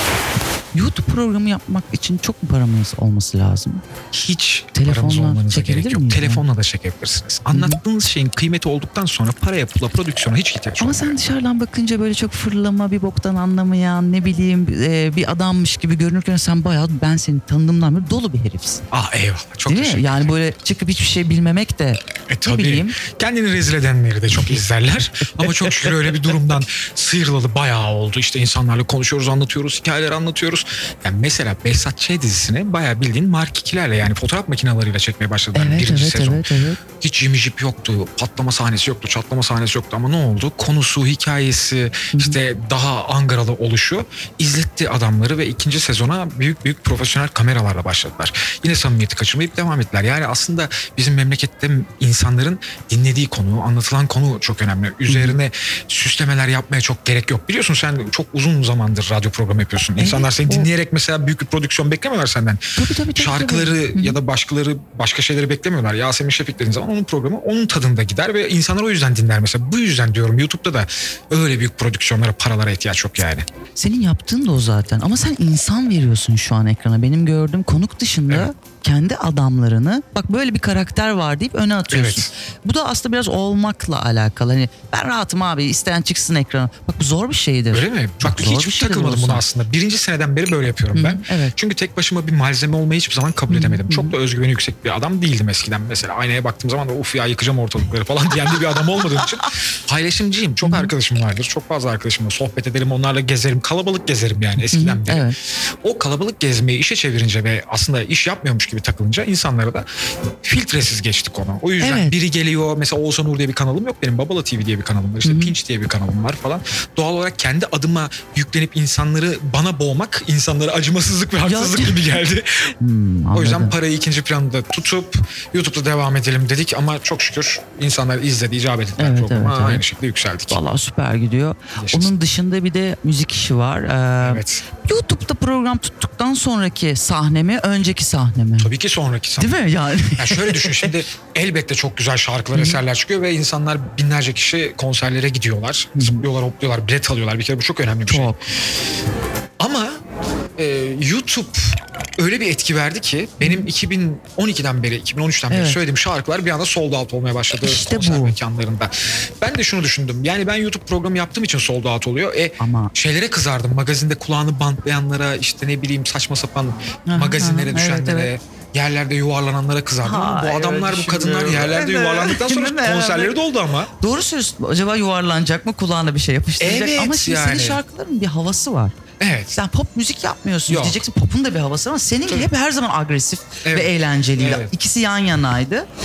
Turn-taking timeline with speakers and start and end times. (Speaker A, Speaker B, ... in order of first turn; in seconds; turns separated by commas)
Speaker A: 0.7-3.8, Speaker B: 4.1-11.2, Speaker A: 4.7-6.4, Speaker A: 7.5-7.8, Speaker A: 10.8-18.8, Speaker B: 18.9-20.3, Speaker A: 19.6-23.0, Speaker B: 22.3-36.4, Speaker A: 24.3-24.6, Speaker A: 25.2-26.4, Speaker A: 35.5-36.8, Speaker B: 37.0-62.6, Speaker A: 55.1-55.4, Speaker A: 60.0-60.7, Speaker A: 62.8-64.2, Speaker B: 63.1-73.4, Speaker A: 73.8-89.4, Speaker B: 81.9-82.3, Speaker B: 87.7-105.3, Speaker A: 90.9-91.5, Speaker A: 93.5-94.1, Speaker A: 100.6-100.9, Speaker A: 104.6-105.3, Speaker B: 105.8-109.8, Speaker B: 110.4-122.7, Speaker A: 111.8-112.1, Speaker A: 115.2-115.5, Speaker A: 121.4-122.1, Speaker A: 122.8-123.8, Speaker B: 123.3-130.6, Speaker A: 129.0-129.8, Speaker A: 130.5-138.7, Speaker B: 131.8-132.1, Speaker B: 134.2-134.6, Speaker B: 138.6-139.6, Speaker A: 139.4-140.9, Speaker B: 140.2-148.3, Speaker A: 142.5-142.8, Speaker A: 145.9-146.2, Speaker A: 148.1-148.4, Speaker B: 149.6-150.0, Speaker B: 150.6-173.9, Speaker A: 153.4-153.7, Speaker A: 155.5-155.8, Speaker A: 157.6-158.4, Speaker A: 162.6-162.9, Speaker A: 167.1-168.3, Speaker A: 170.0-173.4, Speaker A: 174.0-178.9, Speaker B: 176.6-177.8, Speaker B: 179.2-179.6, Speaker A: 179.5-185.9, Speaker B: 180.7-181.0, Speaker B: 183.6-184.7